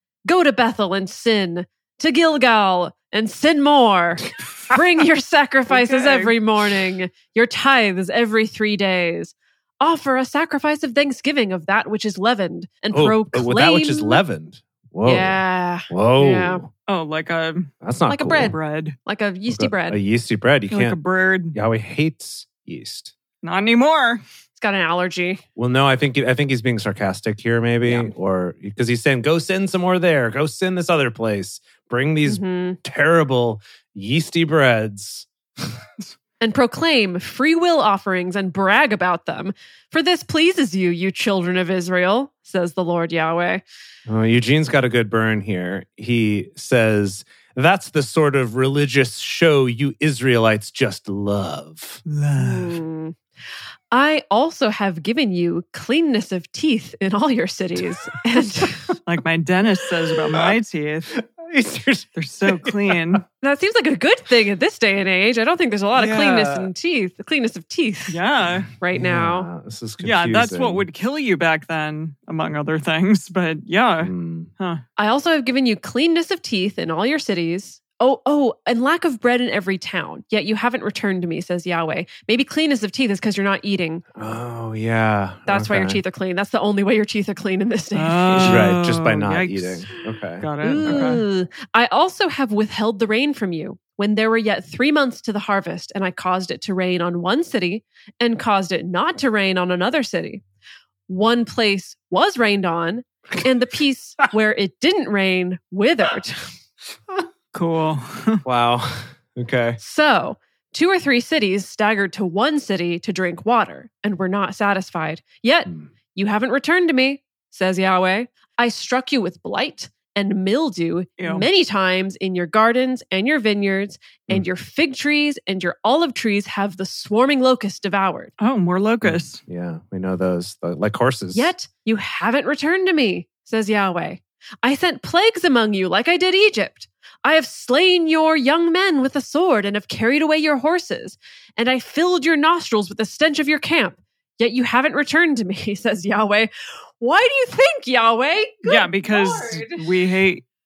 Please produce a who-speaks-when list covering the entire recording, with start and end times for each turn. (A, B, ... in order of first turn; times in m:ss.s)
0:00.3-0:14.2 A
0:05.7-0:06.3 B
0:12.9-0:16.7 C
0:15.0-0:16.6 A
0:16.9-0:17.7 B
0:17.8-0:18.5 C
0:18.1-0:18.5 A
0:18.3-0:19.0 B
0:19.0-0:20.0 A
0:19.5-0:21.0 C
0:20.7-0:21.6 B
0:21.5-0:23.1 C
0:23.4-0:24.2 B
0:24.6-0:25.4 A
0:25.6-0:35.8 C
0:27.8-0:28.1 A
0:32.2-0:32.8 A
0:36.4-0:43.6 A
0:44.0-0:52.0 C
0:52.0-0:52.8 B
0:52.4-0:53.2 A
0:53.9-0:58.8 A
0:59.0-1:01.1 B
1:00.3-1:00.5 C
1:01.1-1:03.2 C
1:02.2-1:03.2 B
1:03.4-1:08.2 A
1:05.9-1:06.7 C
1:08.1-1:08.7 B
1:08.8-1:09.5 A
1:08.9-1:10.8 C
1:10.0-1:14.8 B
1:14.0-1:14.5 C
1:15.0-1:24.0 A
1:24.1-1:26.0 C
1:25.5-1:28.6 A
1:27.9-1:29.8 B
1:28.4-1:31.2 C
1:30.4-1:31.2 B
1:30.6-1:40.4 A
1:41.1-1:46.5 A
1:47.5-1:48.4 B
1:48.4-1:49.8 C
1:49.8-2:08.3 A
2:01.2-2:01.5 B
2:08.4-2:09.4 B
2:09.0-2:11.5 C
2:11.3-2:29.8 A
2:28.6-2:30.4 B